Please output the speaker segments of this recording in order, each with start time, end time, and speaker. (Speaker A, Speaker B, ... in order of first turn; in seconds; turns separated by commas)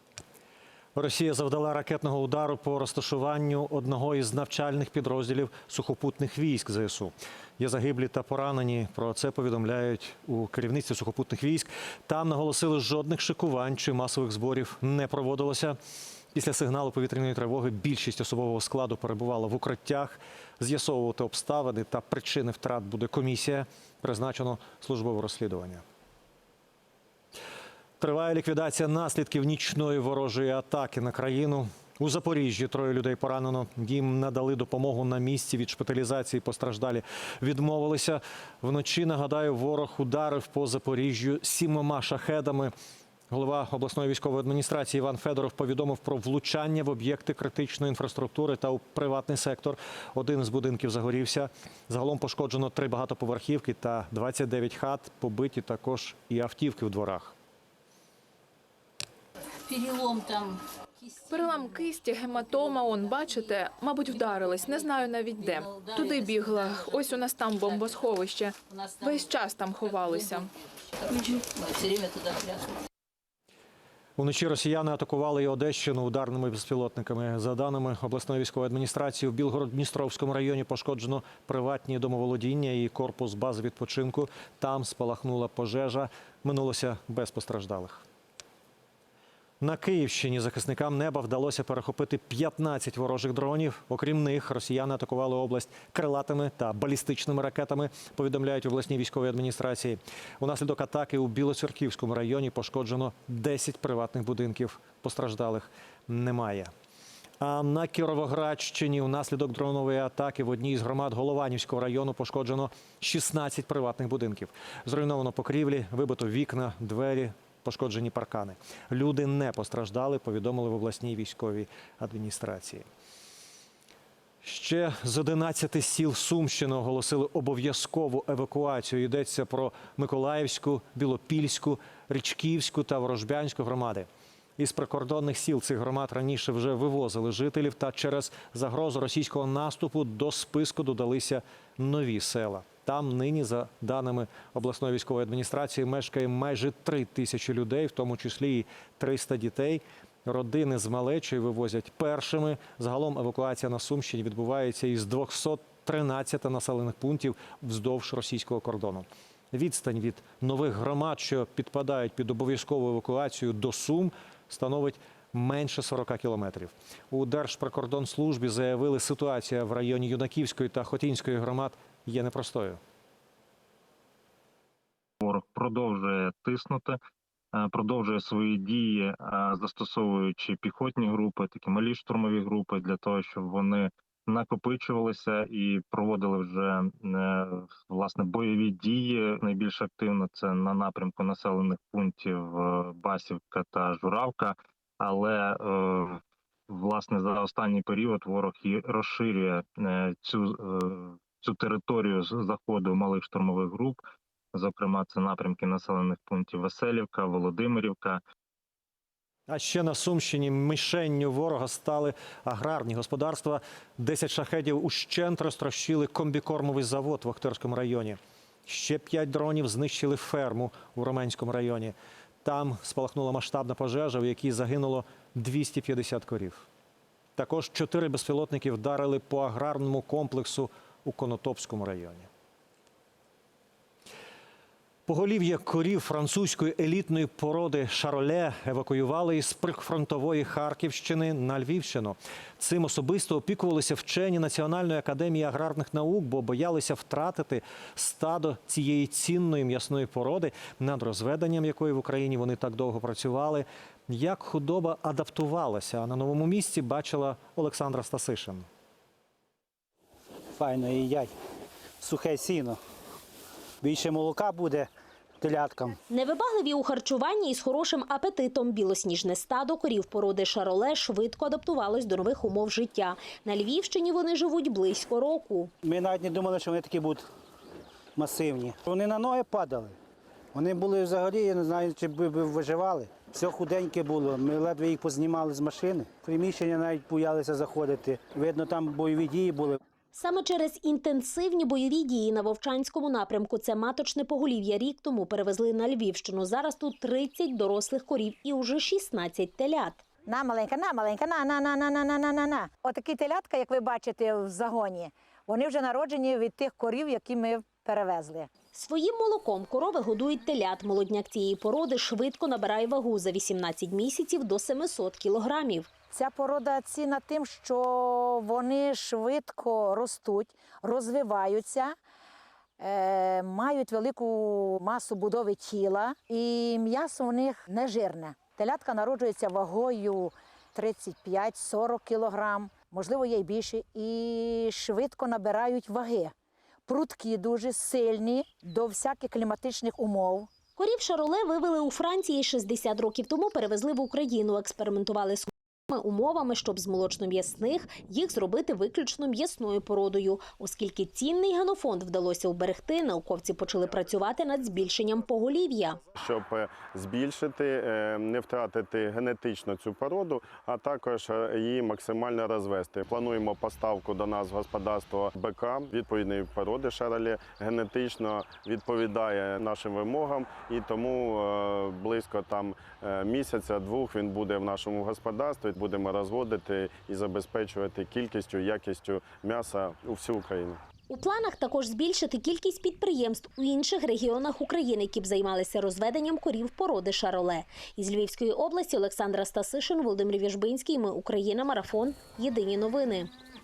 Speaker A: 0.9-15.8, Speaker A: 16.3-25.8, Speaker A: 28.0-42.7, Speaker A: 43.3-57.3, Speaker B: 59.7-60.6, Speaker C: 61.3-70.5, Speaker B: 65.5-66.9, Speaker B: 68.7-69.3, Speaker B: 71.1-72.7, Speaker A: 74.2-88.0, Speaker A: 89.6-106.7, Speaker A: 107.4-122.8, Speaker A: 124.4-172.8, Speaker D: 175.2-177.0, Speaker D: 177.5-204.0, Speaker D: 204.5-208.2, Speaker A: 209.5-226.6, Speaker A: 227.4-232.3, Speaker A: 235.1-258.7, Speaker E: 260.6-261.3, Speaker E: 262.0-262.8, Speaker E: 263.8-264.9, Speaker E: 265.4-266.0, Speaker F: 266.1-275.7, Speaker E: 275.8-277.2, Speaker E: 278.2-279.9, Speaker E: 280.5-289.8, Speaker F: 290.1-300.0, Speaker G: 300.2-308.5, Speaker F: 308.7-315.9, Speaker G: 316.1-321.9, Speaker G: 322.8-336.3, Speaker G: 336.9-340.5, Speaker F: 340.8-356.0, Speaker H: 356.2-380.8, Speaker F: 381.1-393.3